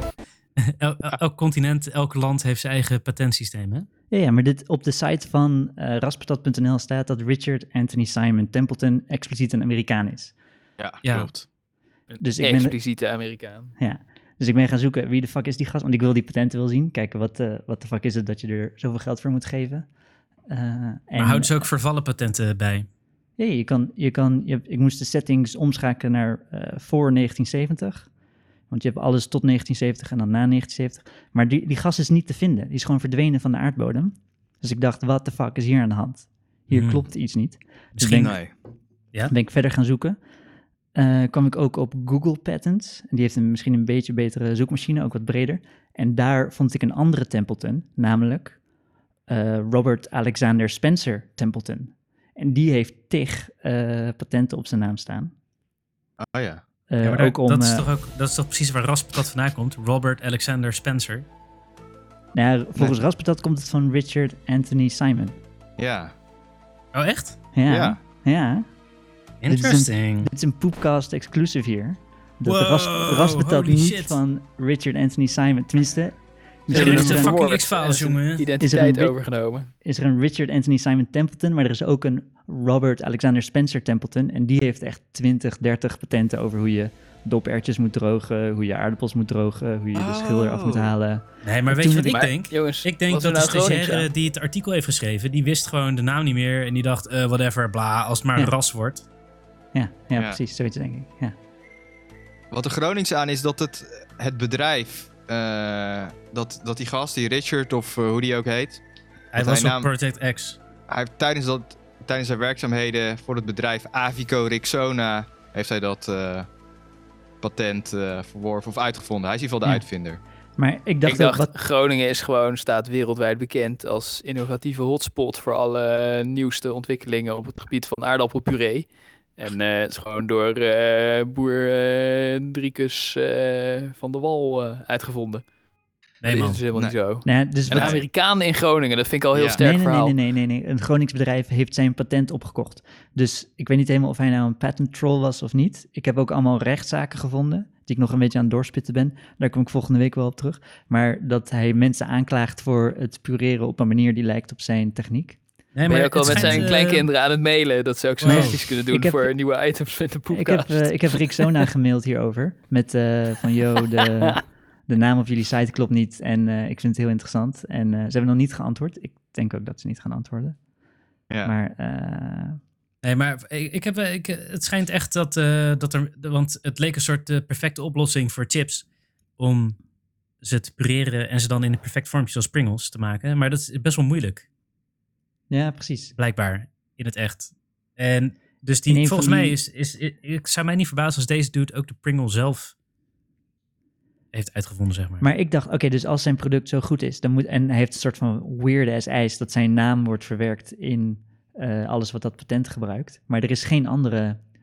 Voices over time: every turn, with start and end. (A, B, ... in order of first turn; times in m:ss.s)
0:00.6-0:03.9 A
0:04.1-0:10.3 B
0:10.8-0:11.4 C
0:11.0-0:11.4 A
0:12.1-0:13.7 D
0:12.2-0:12.8 B
0:13.8-0:19.9 B
0:20.5-0:21.6 B
0:21.2-0:22.9 A
0:23.4-0:28.1 B
0:28.7-0:38.4 B
0:36.7-0:37.0 A
0:38.0-0:38.4 A
0:38.2-0:38.5 C
0:39.3-0:40.2 B
0:40.9-0:48.6 B
0:49.3-0:55.3 B
0:56.2-0:56.6 C
0:56.9-0:57.9 B
0:57.0-1:01.2 A
1:02.3-1:05.4 B
1:05.8-1:06.1 C
1:06.9-1:07.4 A
1:07.5-1:08.7 B
1:07.7-1:08.0 C
1:09.4-1:10.3 A
1:09.5-1:17.4 B
1:12.4-1:14.2 A
1:16.7-1:18.5 A
1:16.7-1:19.7 D
1:18.6-1:19.2 B
1:19.8-1:32.3 B
1:29.9-1:30.9 C
1:31.4-1:39.0 A
1:32.0-1:34.1 D
1:39.7-1:41.3 B
1:42.5-1:48.8 C
1:49.3-1:50.6 A
1:49.4-1:49.9 C
1:50.9-1:56.5 C
1:57.4-2:00.2 C
2:00.6-2:01.5 B
2:01.0-2:15.4 D
2:16.2-2:16.6 A
2:16.2-2:20.1 D
2:17.2-2:18.0 B
2:17.7-2:18.0 C
2:19.3-2:19.6 C
2:19.6-2:35.4 B
2:35.8-2:37.1 A
2:35.8-2:40.9 D
2:36.3-2:36.7 B
2:38.2-2:38.6 A
2:38.2-2:39.3 B
2:40.3-2:50.6 B
2:51.4-2:52.6 B
2:53.0-2:58.8 A
2:59.4-2:59.8 A
3:00.4-3:04.4 A
3:05.5-3:06.1 B
3:06.2-3:12.7 A
3:08.9-3:09.6 B
3:14.3-3:15.2 A
3:15.2-3:24.4 B